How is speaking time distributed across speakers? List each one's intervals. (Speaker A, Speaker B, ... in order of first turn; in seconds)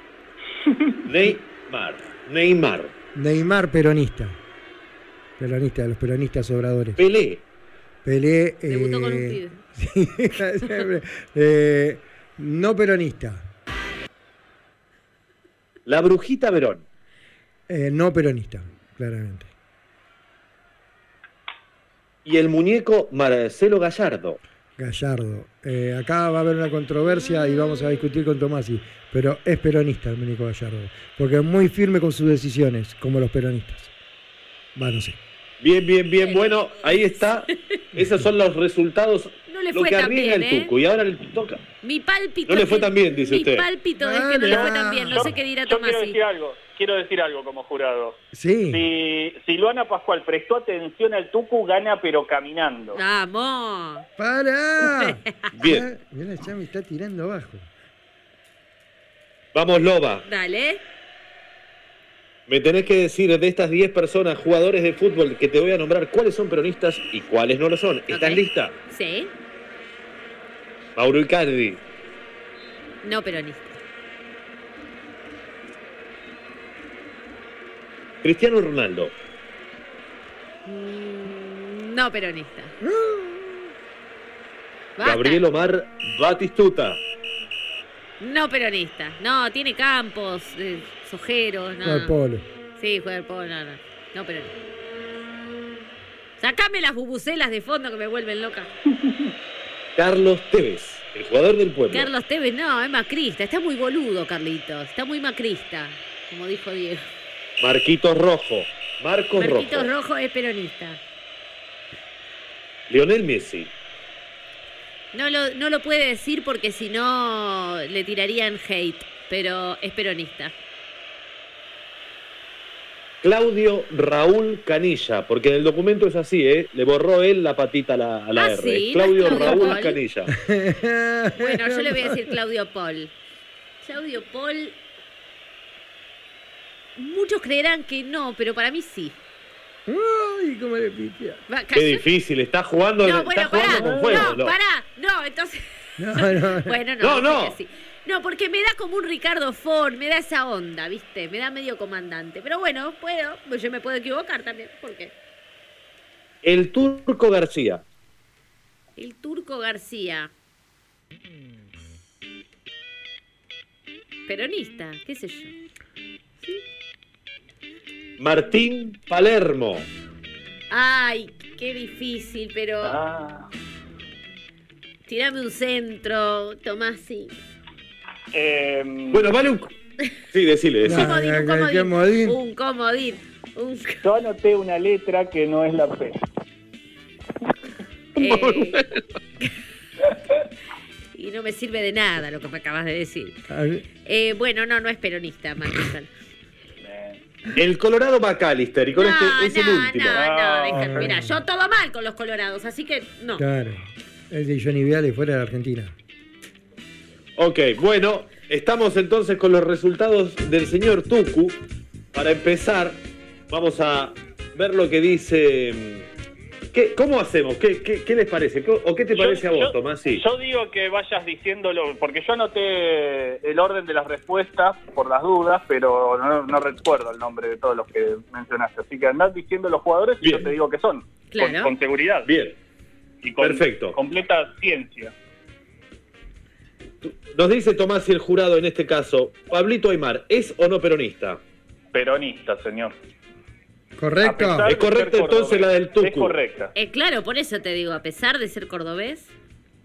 Speaker A: 1.0-2.9, 7.0-7.4, 15.8-16.8, 22.2-24.4, 35.6-41.6, 42.5-43.6, 55.5-55.9, 59.5-60.2, 62.5-68.7, 71.0-71.8, 78.2-79.1, 85.0-87.0, 100.0-102.1, 107.6-109.9, 112.9-113.7, 123.2-130.3, 141.7-144.5, 147.0-147.6, 156.4-157.8, 168.2-169.8, 179.1-179.7, 180.3-181.1, 188.2-189.0, 197.5-200.3, 207.4-211.6, 212.1-216.1, 216.7-220.2, 230.2-230.5, 232.2-232.6, 233.4-234.0, 237.0-241.4, 244.6-246.3
Speaker B: 3.1-4.4, 5.4-7.0, 8.0-13.4, 17.7-19.5, 24.8-33.9, 34.8-35.2, 38.0-38.2, 44.0-45.3, 48.3-48.9, 54.2-57.7, 82.8-83.6, 91.8-92.4, 130.3-132.3, 139.9-141.4, 146.0-146.8, 180.8-182.4, 193.5-193.8, 200.7-201.3, 203.4-205.9, 244.0-244.7
Speaker C: 8.7-9.6, 36.2-37.8, 39.5-40.7, 41.8-46.2, 52.9-54.0, 60.2-60.8, 68.1-69.3, 73.0-73.8, 80.7-82.7, 85.0-85.4, 88.2-92.1, 92.8-94.5, 96.4-98.7, 101.9-107.0, 109.3-111.0, 115.1-120.5, 128.3-130.0, 131.4-133.1, 133.8-134.8, 137.0-139.2, 141.5-142.0, 143.0-155.1, 159.0-160.3, 164.3-165.5, 170.7-173.0, 175.1-177.3, 180.9-184.1, 188.2-188.8, 191.1-193.4, 194.0-196.1, 198.9-203.4, 231.3-231.7, 246.7-249.3
Speaker D: 44.5-48.2, 48.7-53.0, 143.7-144.3, 172.8-173.5, 178.3-179.3, 184.0-186.2, 196.8-197.2, 200.1-201.1, 219.2-232.3, 233.2-235.1, 241.9-242.9, 244.2-246.7